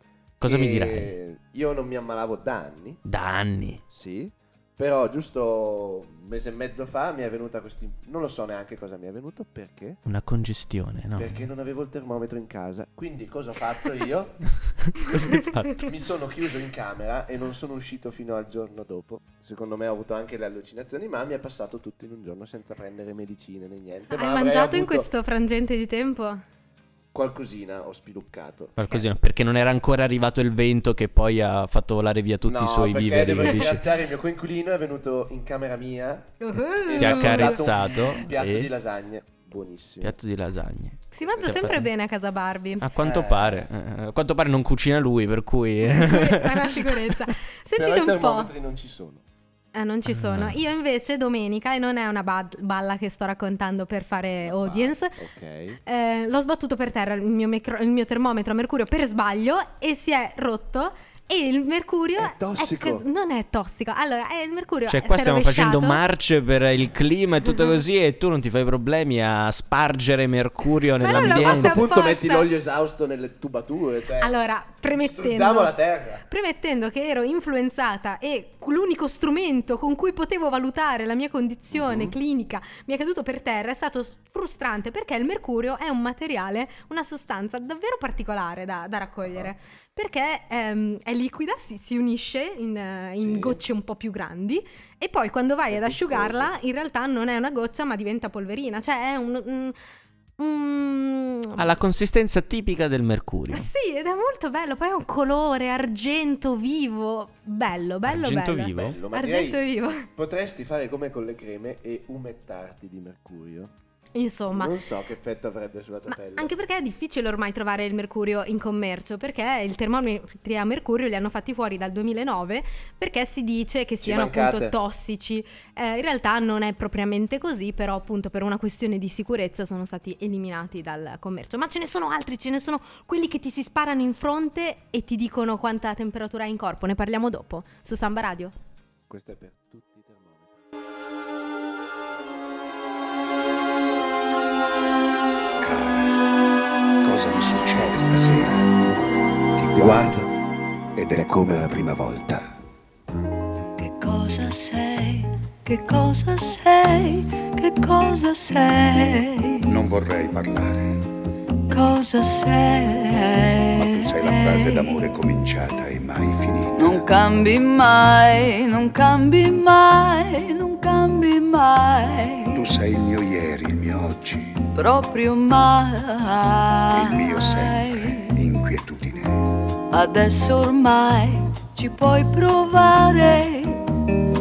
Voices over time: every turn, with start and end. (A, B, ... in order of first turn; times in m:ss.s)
0:00.4-0:01.1 A
0:00.4-0:03.0 B
0:03.0-0:03.8 A
0:03.9-0:10.0 B
0:10.0-0:11.4 A
0:11.1-0:14.4 B
0:14.9-0:15.9 A
0:15.8-0:25.1 B
0:24.1-0:26.4 C
0:27.1-0:29.1 B
0:28.8-0:33.8 A
0:32.5-0:40.2 B
0:36.4-0:37.6 C
0:37.0-0:38.7 A
0:40.0-0:41.9 A
0:41.1-0:42.9 C
0:41.2-0:41.6 B
0:42.8-0:47.1 A
0:43.0-0:43.7 B
0:45.8-0:48.5 C
0:47.7-0:49.2 B
0:49.7-0:55.2 C
0:50.1-0:50.6 A
0:54.4-0:55.8 B
0:55.9-1:06.0 C
1:02.2-1:03.0 B
1:04.9-1:11.8 A
1:11.0-1:12.5 C
1:11.1-1:14.4 B
1:14.2-1:39.7 C
1:14.9-1:16.2 B
1:21.7-1:22.2 B
1:29.2-1:29.5 B
1:33.2-1:33.6 B
1:35.7-1:36.5 B
1:40.4-1:41.8 C
1:41.6-1:43.7 A
1:43.5-1:50.1 C
1:48.0-1:49.0 A
1:48.7-1:53.7 B
1:54.1-1:54.7 C
1:54.5-1:56.5 B
1:56.1-2:18.5 C
2:04.0-2:04.8 B
2:19.1-2:20.6 B
2:25.6-2:26.2 D
2:27.0-2:28.8 D
2:27.7-2:28.0 B
2:29.6-2:30.2 D
2:29.7-2:30.3 B
2:31.0-2:32.4 D
2:31.1-2:32.4 B
2:33.8-2:39.8 E
2:39.6-2:41.1 D
2:41.7-2:45.0 E
2:43.8-2:47.1 D
2:46.8-2:52.7 E
2:52.5-2:54.7 D
2:54.7-2:58.4 E
2:56.9-2:59.6 D
2:59.9-3:03.9 E